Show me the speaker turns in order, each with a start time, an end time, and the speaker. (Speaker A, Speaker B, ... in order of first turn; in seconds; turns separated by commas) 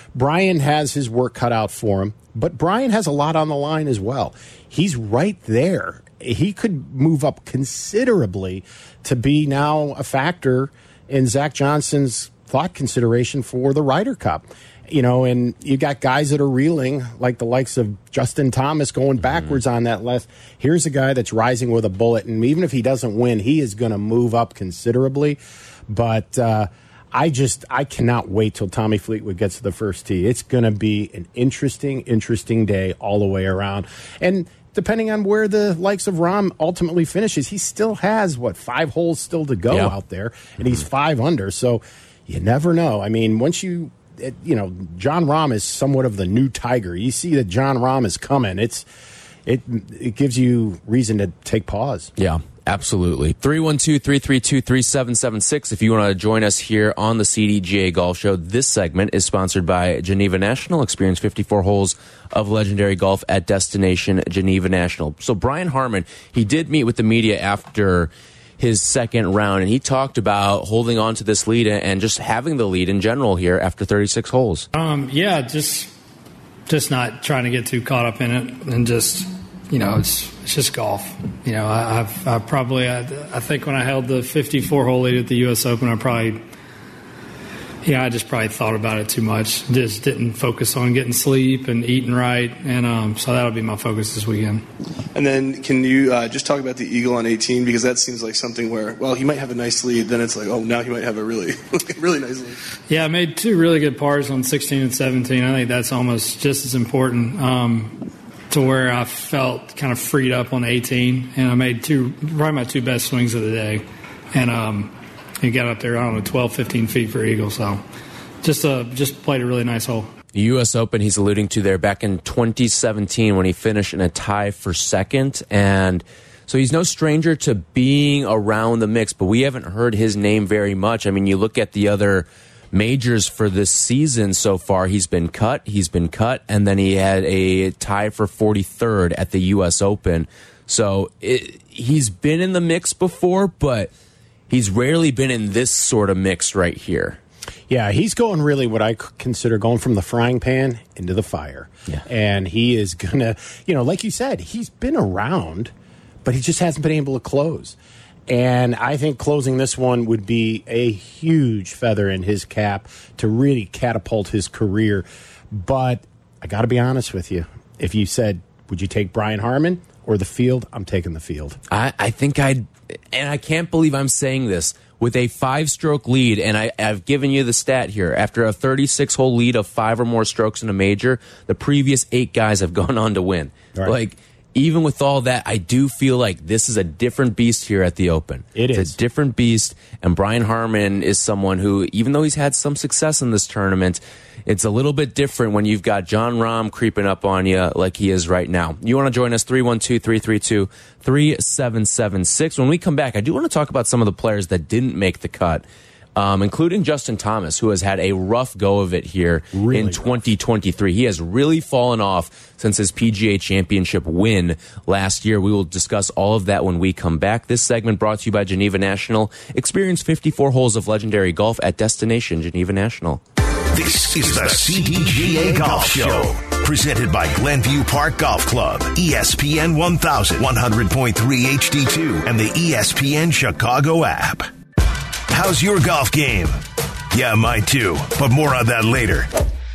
Speaker A: 0.1-48.9, Speaker A: 49.5-52.1, Speaker B: 52.2-74.7, Speaker C: 74.7-75.9, Speaker C: 76.7-86.4, Speaker C: 87.8-94.7, Speaker D: 95.1-102.6, Speaker C: 102.9-117.8, Speaker C: 118.4-120.1, Speaker B: 120.3-143.9, Speaker B: 144.5-147.2, Speaker A: 147.7-155.7, Speaker A: 156.2-157.8, Speaker A: 158.3-171.6, Speaker B: 171.7-205.6, Speaker A: 188.5-189.0, Speaker B: 206.2-223.2, Speaker A: 209.5-210.1, Speaker E: 223.7-234.5, Speaker B: 224.2-226.3, Speaker E: 235.3-236.6, Speaker E: 237.1-239.3